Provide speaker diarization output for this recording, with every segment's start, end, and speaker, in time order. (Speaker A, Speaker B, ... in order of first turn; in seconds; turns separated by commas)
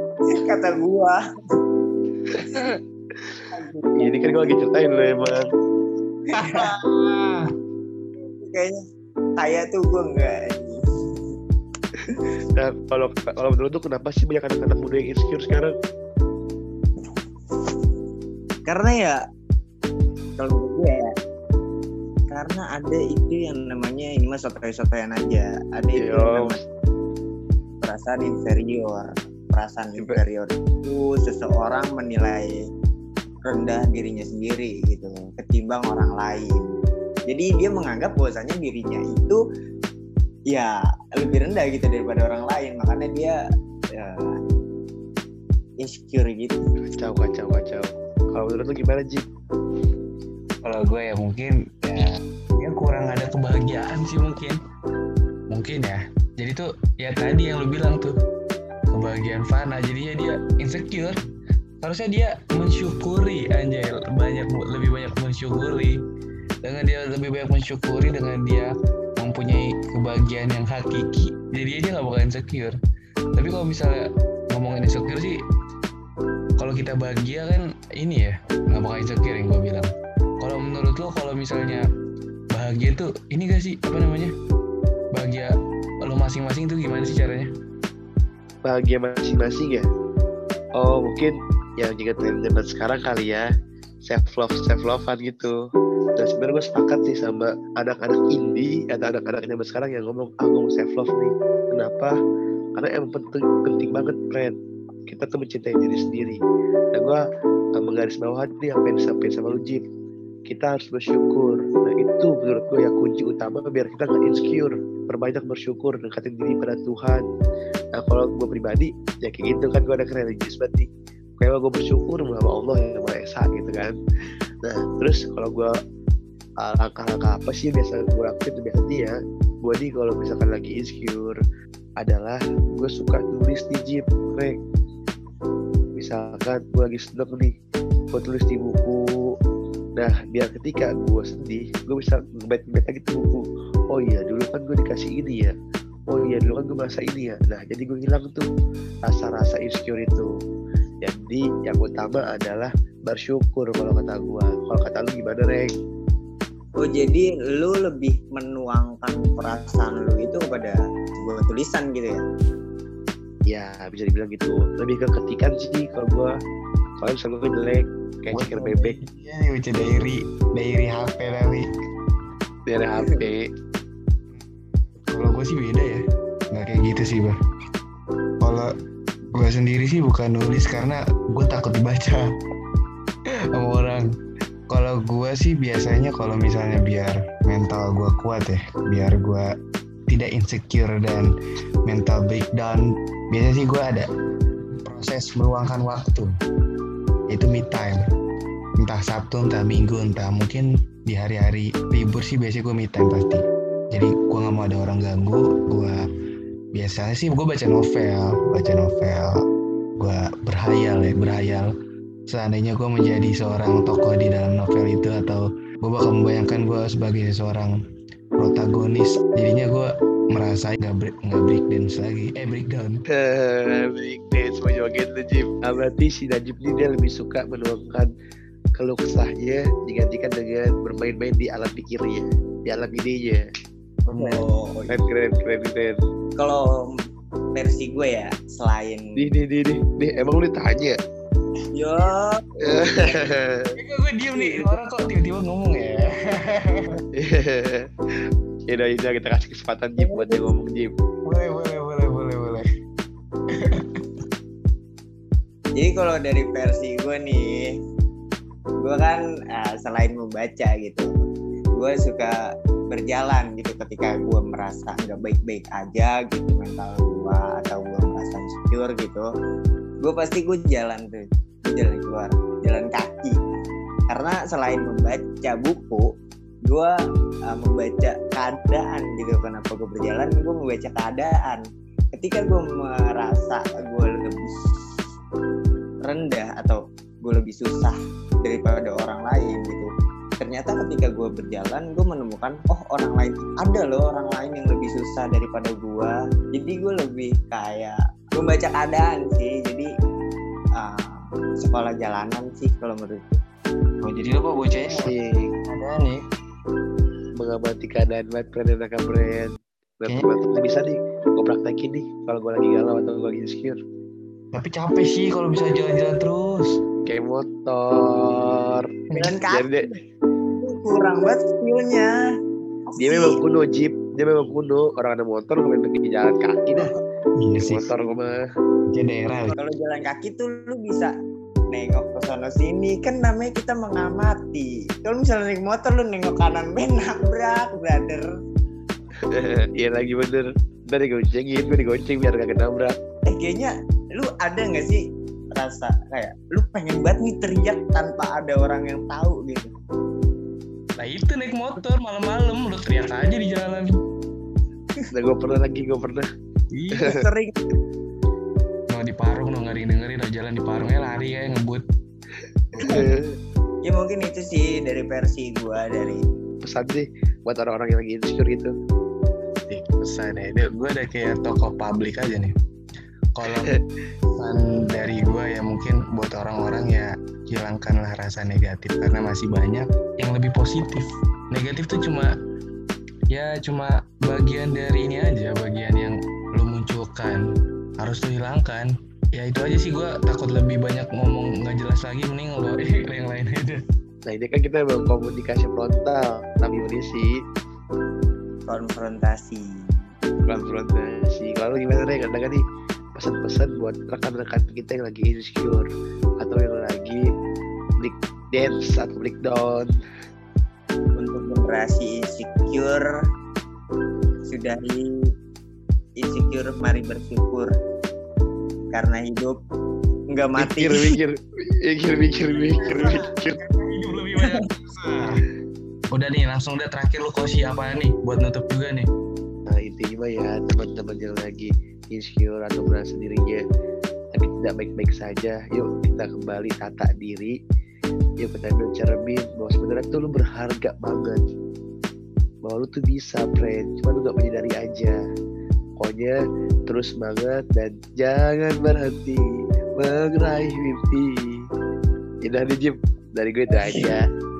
Speaker A: 0.4-1.2, Speaker A: 3.5-4.5, Speaker B: 4.0-5.4, Speaker A: 6.3-6.7, Speaker C: 6.3-7.5, Speaker A: 8.4-8.8, Speaker A: 9.4-10.8, Speaker B: 12.5-15.7, Speaker A: 18.6-19.2, Speaker A: 20.4-21.1, Speaker A: 22.3-26.6, Speaker B: 25.9-26.6, Speaker A: 27.8-32.6, Speaker A: 33.5-36.6, Speaker A: 37.3-39.4, Speaker A: 40.5-43.4, Speaker A: 43.9-44.3, Speaker A: 45.8-46.5, Speaker B: 46.8-49.2, Speaker C: 50.6-54.6, Speaker C: 55.5-58.1, Speaker C: 58.9-61.1, Speaker C: 61.8-66.0, Speaker C: 66.6-72.7, Speaker C: 73.3-75.4, Speaker C: 76.6-79.9, Speaker C: 80.4-81.8, Speaker C: 82.5-84.3, Speaker C: 85.1-87.5, Speaker B: 88.6-89.8, Speaker B: 90.8-93.4, Speaker B: 94.0-95.5, Speaker B: 96.2-102.1, Speaker B: 102.8-104.5, Speaker B: 105.1-106.4, Speaker B: 106.9-107.2, Speaker B: 107.8-109.8, Speaker B: 110.5-117.2, Speaker B: 118.0-120.9, Speaker B: 121.4-123.9, Speaker B: 124.6-125.7, Speaker B: 126.6-131.4, Speaker B: 132.0-134.6, Speaker B: 135.9-137.5, Speaker B: 138.1-139.0, Speaker B: 140.0-145.5, Speaker B: 146.1-148.4, Speaker B: 149.1-150.3, Speaker B: 151.0-155.7, Speaker A: 156.8-162.2, Speaker B: 163.5-166.3, Speaker B: 167.0-169.0, Speaker C: 168.3-171.6, Speaker B: 172.7-173.4, Speaker C: 175.1-177.3, Speaker C: 178.4-178.7, Speaker C: 179.3-182.2, Speaker C: 183.5-184.1, Speaker C: 184.7-189.5, Speaker C: 190.1-191.3, Speaker C: 191.8-194.1, Speaker C: 194.8-196.3, Speaker C: 197.3-198.0, Speaker C: 198.8-206.0, Speaker C: 206.7-209.3, Speaker C: 210.0-211.7, Speaker C: 212.3-217.8, Speaker C: 218.4-223.0, Speaker B: 223.1-228.1, Speaker B: 228.8-233.4, Speaker A: 234.1-235.0, Speaker B: 234.9-236.0, Speaker A: 236.4-236.7, Speaker A: 237.5-239.3, Speaker B: 239.2-240.9, Speaker A: 241.7-243.2, Speaker B: 242.6-243.7, Speaker C: 243.8-247.0, Speaker A: 244.4-244.6, Speaker B: 247.2-247.9, Speaker B: 248.7-250.9, Speaker A: 250.0-250.4, Speaker C: 251.2-252.6, Speaker C: 253.5-254.0, Speaker A: 255.8-257.6, Speaker A: 258.8-261.1, Speaker A: 261.8-262.3, Speaker A: 262.9-269.3, Speaker A: 270.0-273.4, Speaker A: 274.1-276.1, Speaker A: 276.7-276.9, Speaker A: 277.5-284.6, Speaker A: 286.0-289.9, Speaker A: 290.4-299.9, Speaker A: 300.8-303.4, Speaker C: 304.0-305.1, Speaker B: 304.8-305.5, Speaker C: 305.6-306.2, Speaker B: 307.4-313.8, Speaker C: 314.5-316.7, Speaker B: 317.1-318.8, Speaker A: 319.1-319.9, Speaker B: 319.5-319.9, Speaker A: 320.6-322.1, Speaker A: 322.9-323.4, Speaker B: 323.0-326.9, Speaker C: 327.4-328.1, Speaker B: 327.6-328.4, Speaker C: 328.9-329.5, Speaker A: 329.6-331.1, Speaker A: 331.7-338.3, Speaker B: 339.3-343.0, Speaker A: 343.3-345.0, Speaker A: 345.5-349.7, Speaker C: 351.0-353.9, Speaker B: 355.1-356.2, Speaker C: 356.7-357.1, Speaker A: 357.0-357.6, Speaker C: 358.9-361.8, Speaker C: 362.7-363.1, Speaker B: 362.8-363.3, Speaker A: 363.8-366.2, Speaker B: 366.6-368.7, Speaker C: 369.7-372.5, Speaker C: 373.3-373.7, Speaker C: 374.4-382.3, Speaker C: 383.3-387.4, Speaker C: 388.0-393.8, Speaker B: 394.2-397.3, Speaker A: 398.7-399.7, Speaker B: 400.5-402.6, Speaker B: 403.1-405.9, Speaker B: 406.4-407.2, Speaker B: 408.0-409.9, Speaker A: 411.2-413.1, Speaker A: 414.4-415.1, Speaker A: 416.2-417.7, Speaker A: 418.9-419.6, Speaker A: 420.3-421.1, Speaker B: 420.6-423.6, Speaker A: 422.8-423.2, Speaker C: 422.8-425.4, Speaker C: 426.1-429.1, Speaker B: 429.7-433.6, Speaker B: 434.3-437.5, Speaker B: 438.4-441.4, Speaker B: 442.6-445.2, Speaker B: 446.0-446.4, Speaker B: 446.9-449.4, Speaker B: 449.9-451.5, Speaker B: 452.4-454.2, Speaker C: 453.8-454.1